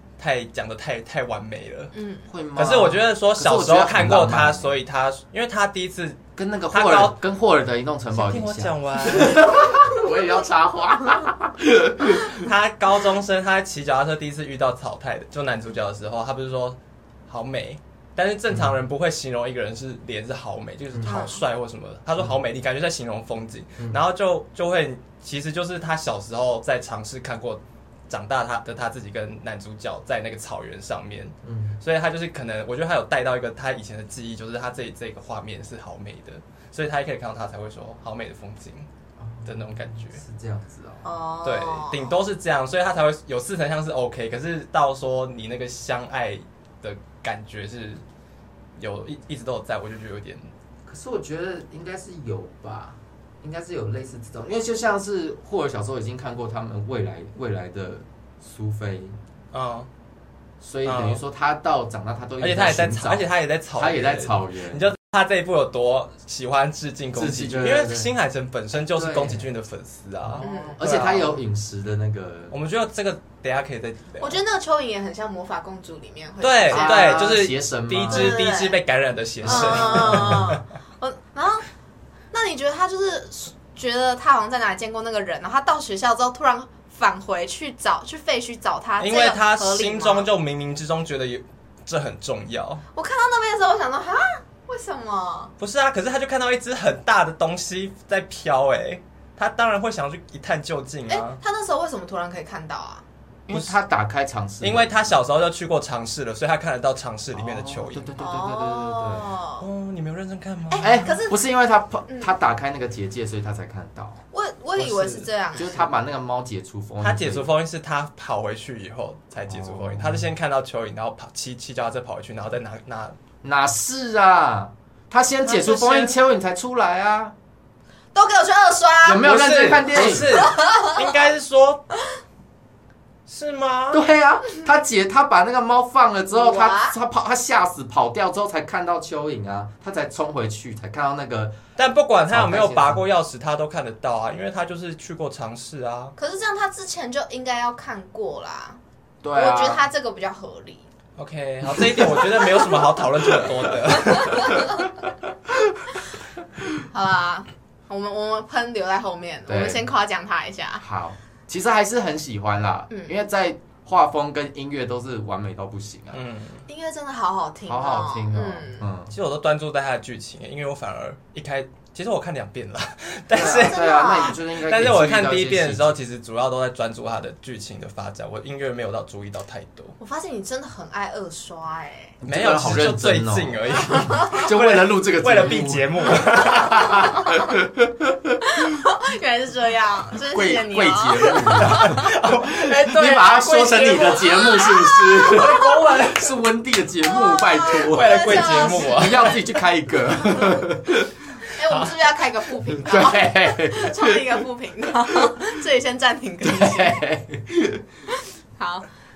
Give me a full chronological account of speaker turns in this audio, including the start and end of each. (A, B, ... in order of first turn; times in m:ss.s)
0:00.2-0:01.9 A
0:01.9-0:02.3 B
0:02.3-0:04.8 C
0:02.6-0:07.2 A
0:06.4-0:12.5 C
0:08.1-0:09.6 A
0:12.3-0:16.8 A
0:17.3-0:38.9 A
0:18.5-0:18.8 C
0:20.9-0:21.2 C
0:21.0-0:21.4 B
0:31.4-0:31.8 C
0:39.2-0:41.1 C
0:39.4-0:40.2 A
0:41.0-0:42.2 B
0:41.4-0:48.0 A
0:48.8-0:50.5 A
0:50.8-0:59.2 C
0:59.5-0:59.9 A
1:00.6-1:04.9 C
1:00.8-1:01.2 A
1:02.4-1:11.4 A
1:07.1-1:08.1 C
1:08.8-1:09.5 C
1:10.2-1:12.6 C
1:10.4-1:10.8 B
1:12.5-1:14.4 A
1:14.2-1:17.2 B
1:16.4-1:20.6 A
1:16.7-1:18.4 C
1:18.1-1:18.8 B
1:19.4-1:20.6 C
1:19.4-1:21.7 B
1:22.3-1:30.3 B
1:29.0-1:32.8 A
1:32.9-1:35.5 B
1:35.6-1:41.4 A
1:41.1-1:43.0 B
1:43.5-1:45.1 C
1:43.5-1:43.8 A
1:44.6-1:48.2 A
1:47.3-1:49.4 C
1:48.2-1:49.7 B
1:49.6-1:51.0 A
1:50.7-1:51.4 B
1:50.8-1:54.2 C
1:54.3-1:55.8 B
1:54.8-1:55.3 A
1:55.6-1:57.5 C
1:57.0-2:03.2 A
1:59.5-2:00.3 C
2:03.4-2:07.4 C
2:05.4-2:06.2 A
2:08.1-2:09.3 B
2:09.0-2:10.5 C
2:09.2-2:11.9 A
2:10.0-2:11.0 B
2:13.3-2:14.0 A
2:13.9-2:21.6 C
2:16.3-2:17.0 B
2:21.8-2:26.1 A
2:22.3-2:23.1 C
2:26.2-2:28.8 B
2:29.2-2:29.8 C
2:29.3-2:30.8 B
2:31.2-2:34.7 A
2:31.6-2:32.7 C
2:34.1-2:34.8 B
2:36.9-2:40.8 B
2:39.5-2:39.9 C
2:40.8-2:46.2 C
2:42.9-2:43.2 B
2:46.1-2:46.6 A
2:46.7-2:48.8 B
2:47.7-2:49.1 C
2:49.1-3:00.0 A
2:53.3-2:56.0 C
2:53.4-2:54.4 B
3:00.0-3:02.2 B
3:02.2-3:08.4 C
3:02.3-3:07.2 A
3:03.9-3:04.4 B
3:06.9-3:07.4 B
3:08.5-3:12.1 B
3:10.3-3:21.1 C
3:11.6-3:14.6 A
3:13.7-3:16.0 B
3:15.2-3:16.3 A
3:17.0-3:19.4 B
3:17.9-3:19.4 A
3:21.5-3:27.0 B
3:21.7-3:21.9 A
3:22.8-3:24.2 C
3:26.4-3:27.8 C
3:28.1-3:28.9 B